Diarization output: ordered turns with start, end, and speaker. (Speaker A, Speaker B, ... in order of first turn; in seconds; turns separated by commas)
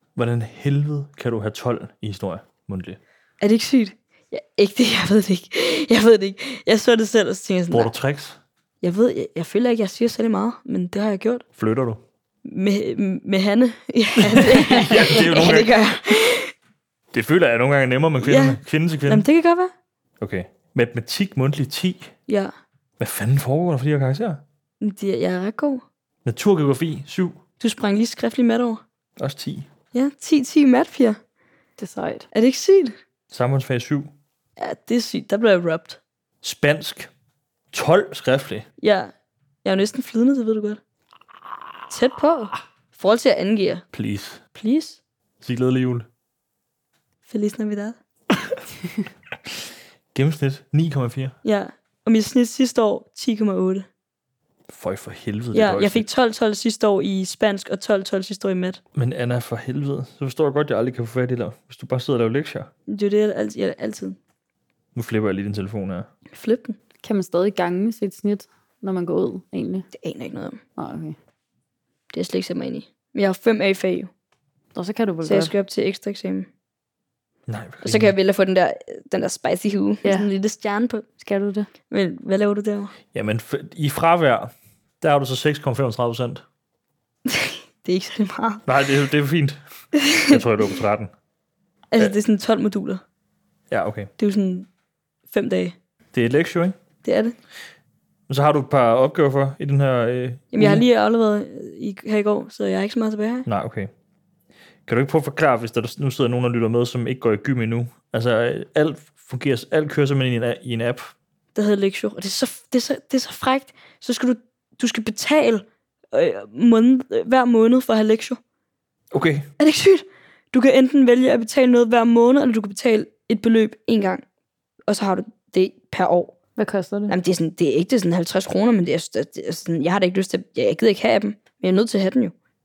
Speaker A: 0.2-3.0, Speaker B: 3.4-7.9, Speaker A: 7.7-8.4, Speaker B: 8.8-11.4, Speaker A: 11.6-12.0, Speaker B: 12.4-16.5, Speaker A: 14.2-15.7, Speaker A: 17.1-19.2, Speaker B: 18.2-19.7, Speaker A: 20.2-22.1, Speaker B: 22.3-22.5, Speaker A: 23.0-24.4, Speaker B: 24.8-25.8, Speaker A: 26.2-27.4, Speaker B: 27.6-28.8, Speaker A: 29.2-29.7, Speaker B: 29.9-31.2, Speaker C: 31.8-32.3, Speaker B: 32.3-33.0, Speaker A: 33.3-34.1, Speaker B: 34.6-36.0, Speaker A: 36.4-37.1, Speaker A: 37.7-38.7, Speaker B: 38.8-39.1, Speaker B: 39.6-40.8, Speaker B: 41.9-43.9, Speaker A: 43.9-44.4, Speaker B: 44.5-45.0, Speaker A: 45.4-46.1, Speaker B: 47.3-48.0, Speaker A: 50.1-51.4, Speaker B: 51.4-53.9, Speaker A: 54.7-56.1, Speaker B: 55.5-58.8, Speaker A: 59.0-62.7, Speaker B: 62.9-64.2, Speaker A: 65.0-66.1, Speaker B: 66.3-66.8, Speaker C: 67.0-69.9, Speaker B: 70.0-70.6, Speaker C: 70.8-71.2, Speaker B: 72.1-74.1, Speaker C: 74.7-75.5, Speaker B: 75.2-76.5, Speaker A: 77.5-78.2, Speaker B: 77.8-81.1, Speaker C: 80.0-80.3, Speaker C: 81.2-81.7, Speaker B: 81.9-82.9, Speaker A: 83.1-86.5, Speaker B: 87.3-88.7, Speaker A: 88.7-89.6, Speaker B: 90.0-90.4, Speaker A: 90.2-91.1, Speaker B: 91.9-93.0, Speaker A: 93.7-94.1, Speaker B: 94.2-94.7, Speaker B: 95.3-95.8, Speaker A: 96.1-96.8, Speaker B: 97.0-97.4, Speaker A: 98.3-100.8, Speaker B: 100.5-103.5, Speaker A: 103.5-103.9, Speaker A: 104.9-111.1, Speaker B: 111.5-118.4, Speaker A: 119.1-119.5, Speaker B: 119.6-124.2, Speaker B: 124.9-126.3, Speaker C: 126.6-127.2, Speaker B: 127.1-132.3